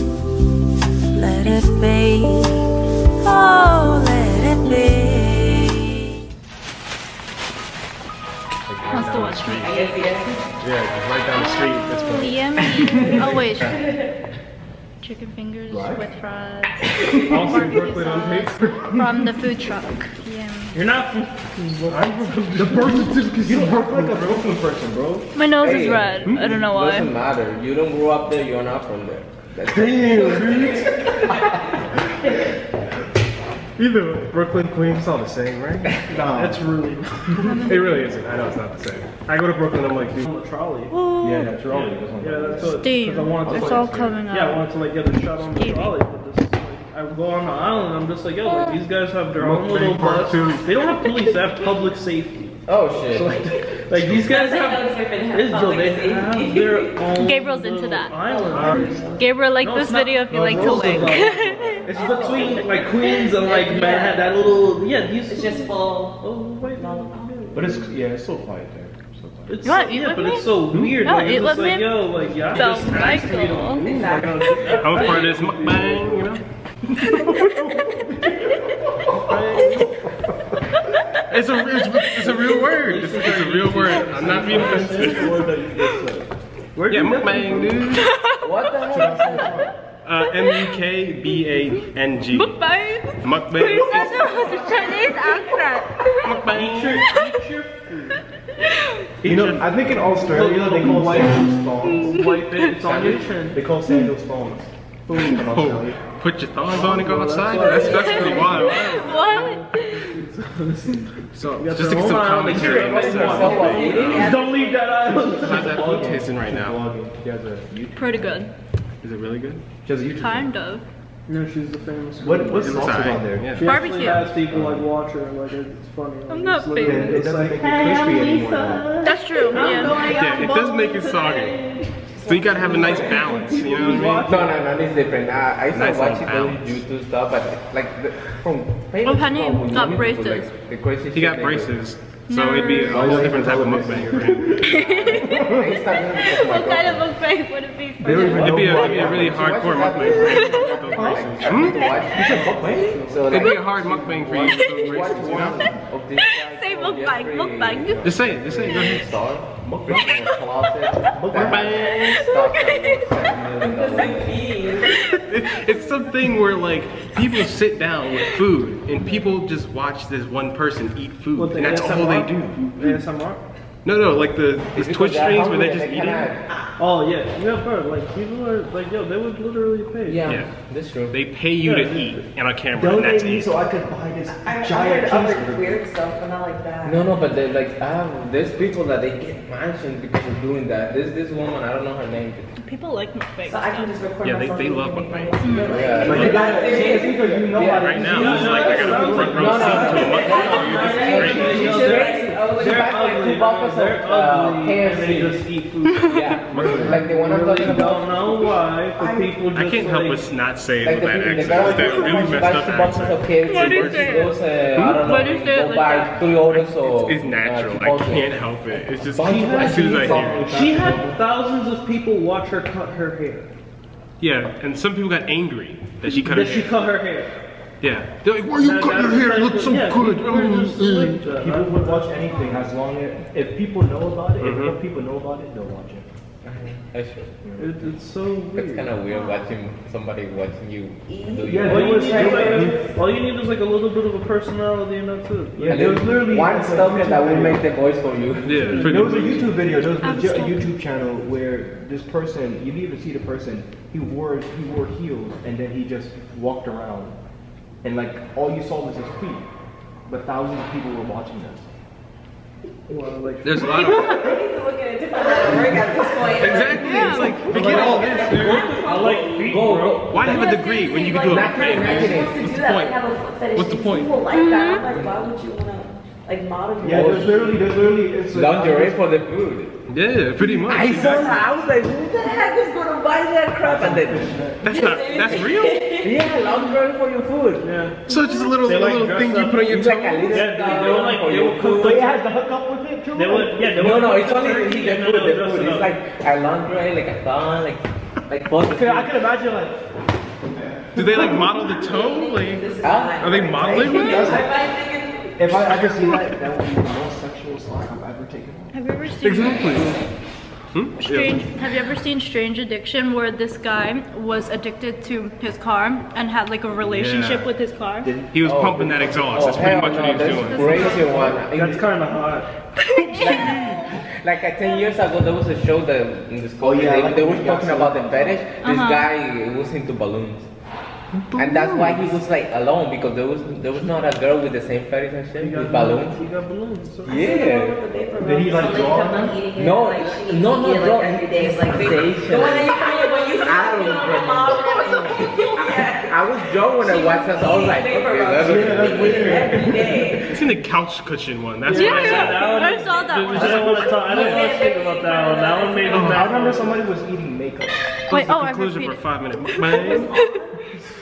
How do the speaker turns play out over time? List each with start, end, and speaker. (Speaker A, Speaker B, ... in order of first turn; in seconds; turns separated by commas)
Speaker A: 1.1-2.6, Speaker A: 3.2-5.8, Speaker B: 8.7-9.7, Speaker C: 8.9-10.1, Speaker D: 9.6-10.4, Speaker B: 10.6-13.8, Speaker C: 11.3-13.8, Speaker D: 13.2-14.1, Speaker C: 15.0-20.8, Speaker E: 15.7-16.1, Speaker E: 17.2-17.8, Speaker B: 17.3-19.2, Speaker F: 20.7-22.1, Speaker B: 21.9-24.5, Speaker E: 22.5-25.3, Speaker C: 25.3-27.1, Speaker G: 25.6-30.9, Speaker B: 26.2-26.6, Speaker B: 29.9-31.2, Speaker E: 30.3-30.6, Speaker B: 33.8-36.1, Speaker E: 36.1-36.6, Speaker F: 36.3-37.7, Speaker C: 37.4-38.1, Speaker B: 37.6-40.3, Speaker F: 40.2-40.9, Speaker C: 40.9-41.7, Speaker E: 41.2-42.9, Speaker F: 41.7-68.0, Speaker C: 42.8-46.0, Speaker E: 43.4-44.2, Speaker C: 48.5-48.8, Speaker B: 49.4-50.7, Speaker G: 52.6-53.4, Speaker D: 54.2-57.3, Speaker C: 57.2-58.3, Speaker D: 58.2-59.3, Speaker B: 58.5-58.9, Speaker C: 59.1-63.2, Speaker E: 60.3-61.8, Speaker D: 61.9-62.8, Speaker D: 63.4-64.3, Speaker D: 65.3-67.3, Speaker E: 67.5-69.6, Speaker F: 69.5-76.3, Speaker C: 69.6-74.0, Speaker B: 70.7-71.0, Speaker D: 73.8-75.2, Speaker B: 74.7-76.4, Speaker E: 76.9-80.5, Speaker C: 77.0-78.6, Speaker F: 79.3-79.8, Speaker C: 79.5-79.8, Speaker B: 81.3-85.4, Speaker E: 82.2-86.3, Speaker F: 82.8-84.9, Speaker G: 84.4-85.0, Speaker C: 85.8-86.1, Speaker F: 86.7-87.9, Speaker B: 86.9-88.1, Speaker C: 88.0-89.5, Speaker G: 88.4-89.6, Speaker E: 88.9-89.7, Speaker B: 90.0-92.6, Speaker C: 90.3-90.8, Speaker C: 92.3-96.5, Speaker B: 93.2-94.7, Speaker G: 94.0-95.3, Speaker B: 96.2-97.1, Speaker F: 96.5-98.2, Speaker C: 98.6-99.1, Speaker F: 99.2-103.6, Speaker E: 99.2-102.2, Speaker C: 101.8-102.8, Speaker E: 102.8-106.0, Speaker F: 105.1-105.5, Speaker B: 105.4-109.1, Speaker F: 106.7-115.8, Speaker C: 107.6-110.2, Speaker B: 111.3-114.3, Speaker G: 112.4-114.8, Speaker D: 113.4-114.5, Speaker E: 114.8-118.5, Speaker B: 115.4-116.8, Speaker C: 117.9-118.5, Speaker B: 119.0-119.6, Speaker E: 119.8-120.5, Speaker C: 120.0-120.8, Speaker F: 121.3-129.9, Speaker E: 122.2-123.5, Speaker B: 122.6-123.8, Speaker C: 123.6-124.3, Speaker C: 126.3-127.3, Speaker E: 126.8-129.0, Speaker D: 127.9-133.7, Speaker C: 129.0-131.0, Speaker B: 130.0-131.6, Speaker B: 132.1-134.3, Speaker E: 132.8-133.7, Speaker F: 133.6-134.5, Speaker G: 133.9-141.7, Speaker B: 135.7-136.8, Speaker C: 139.0-140.5, Speaker B: 141.1-144.9, Speaker C: 142.3-143.1, Speaker E: 142.8-145.7, Speaker G: 144.6-147.1, Speaker C: 144.7-149.1, Speaker E: 148.0-154.2, Speaker B: 148.4-152.0, Speaker G: 148.7-164.4, Speaker C: 149.9-150.8, Speaker F: 151.0-153.2, Speaker C: 151.7-152.4, Speaker B: 153.2-155.6, Speaker C: 154.5-155.3, Speaker E: 155.2-155.7, Speaker C: 156.1-158.0, Speaker E: 157.9-158.2, Speaker B: 158.0-159.1, Speaker E: 159.6-160.0, Speaker C: 159.9-160.4, Speaker E: 161.2-161.7, Speaker C: 161.2-163.1, Speaker B: 161.4-162.3, Speaker D: 163.6-164.9, Speaker C: 164.8-166.0, Speaker B: 165.0-173.0, Speaker C: 168.1-168.4, Speaker F: 171.3-173.4, Speaker B: 173.8-176.3, Speaker G: 174.7-176.4, Speaker F: 176.8-180.4, Speaker G: 180.1-181.2, Speaker B: 180.2-180.5, Speaker B: 181.1-183.6, Speaker F: 181.6-182.2, Speaker E: 182.7-185.8, Speaker D: 184.3-187.2, Speaker G: 186.8-192.6, Speaker C: 192.6-194.0, Speaker D: 193.4-197.6, Speaker B: 194.2-196.5, Speaker C: 195.4-195.8, Speaker G: 195.6-205.4, Speaker E: 196.0-200.2, Speaker B: 197.7-201.8, Speaker F: 198.1-210.3, Speaker D: 199.4-202.9, Speaker G: 206.1-208.2, Speaker B: 206.5-207.0, Speaker D: 209.0-209.3, Speaker B: 209.5-214.2, Speaker G: 210.8-218.3, Speaker C: 213.4-214.4, Speaker B: 214.7-215.1, Speaker C: 215.0-216.3, Speaker B: 216.4-220.5, Speaker G: 219.0-220.4, Speaker E: 219.2-221.2, Speaker F: 220.5-223.5, Speaker B: 224.2-226.8, Speaker F: 226.2-227.3, Speaker B: 227.8-231.3, Speaker F: 228.5-232.3, Speaker E: 231.3-236.1, Speaker D: 232.3-232.6, Speaker B: 234.4-234.8, Speaker G: 236.4-237.3, Speaker E: 237.4-237.7, Speaker F: 237.6-238.9, Speaker G: 238.5-242.0, Speaker D: 239.1-239.5, Speaker D: 241.1-242.9, Speaker E: 241.5-242.6, Speaker F: 241.7-245.7, Speaker B: 242.5-242.8, Speaker E: 245.6-247.7, Speaker G: 245.7-248.8, Speaker B: 248.4-249.7, Speaker F: 248.7-249.2, Speaker E: 248.8-257.1, Speaker C: 249.4-250.7, Speaker E: 257.8-259.4, Speaker E: 260.1-261.6, Speaker F: 262.9-264.0, Speaker B: 263.4-264.2, Speaker D: 263.6-269.3, Speaker B: 266.3-268.7, Speaker C: 266.8-267.5, Speaker G: 267.2-270.5, Speaker E: 267.3-268.1, Speaker F: 267.5-270.3, Speaker B: 270.1-273.0, Speaker D: 270.3-277.6, Speaker G: 271.2-272.4, Speaker B: 273.5-274.2, Speaker C: 274.3-275.0, Speaker E: 276.8-279.0, Speaker G: 276.9-277.3, Speaker G: 278.3-279.7, Speaker B: 279.9-281.4, Speaker G: 280.6-284.4, Speaker D: 281.0-281.4, Speaker E: 283.6-284.8, Speaker B: 284.6-285.9, Speaker D: 284.7-286.4, Speaker G: 285.1-285.5, Speaker G: 286.0-287.6, Speaker F: 287.6-288.0, Speaker C: 288.1-288.6, Speaker B: 288.1-290.5, Speaker F: 288.6-289.7, Speaker G: 289.7-292.1, Speaker F: 290.3-292.2, Speaker E: 291.8-293.8, Speaker F: 293.1-296.0, Speaker G: 293.7-299.2, Speaker E: 298.6-299.8, Speaker E: 300.6-301.9, Speaker B: 300.9-304.4, Speaker D: 301.2-305.5, Speaker G: 302.8-304.1, Speaker E: 303.9-304.5, Speaker E: 305.4-308.8, Speaker B: 305.7-306.0, Speaker C: 308.7-310.0, Speaker B: 309.2-310.0, Speaker B: 310.7-311.5, Speaker C: 311.0-318.1, Speaker B: 316.8-317.5, Speaker E: 318.0-320.0, Speaker B: 318.3-321.0, Speaker G: 318.4-321.8, Speaker F: 320.1-322.5, Speaker C: 320.4-321.0, Speaker C: 322.8-324.0, Speaker G: 323.1-330.5, Speaker C: 324.6-324.9, Speaker E: 326.6-328.5, Speaker C: 328.5-329.1, Speaker B: 331.1-332.2, Speaker G: 331.4-336.2, Speaker F: 335.4-337.4, Speaker G: 337.0-337.8, Speaker D: 337.1-350.4, Speaker E: 338.2-339.4, Speaker G: 339.5-349.6, Speaker E: 348.4-350.4, Speaker B: 350.3-352.6, Speaker F: 351.6-356.8, Speaker C: 351.7-354.2, Speaker G: 353.3-353.9, Speaker D: 353.9-356.5, Speaker B: 354.2-354.5, Speaker E: 355.9-358.0, Speaker B: 358.1-360.1, Speaker C: 358.1-360.4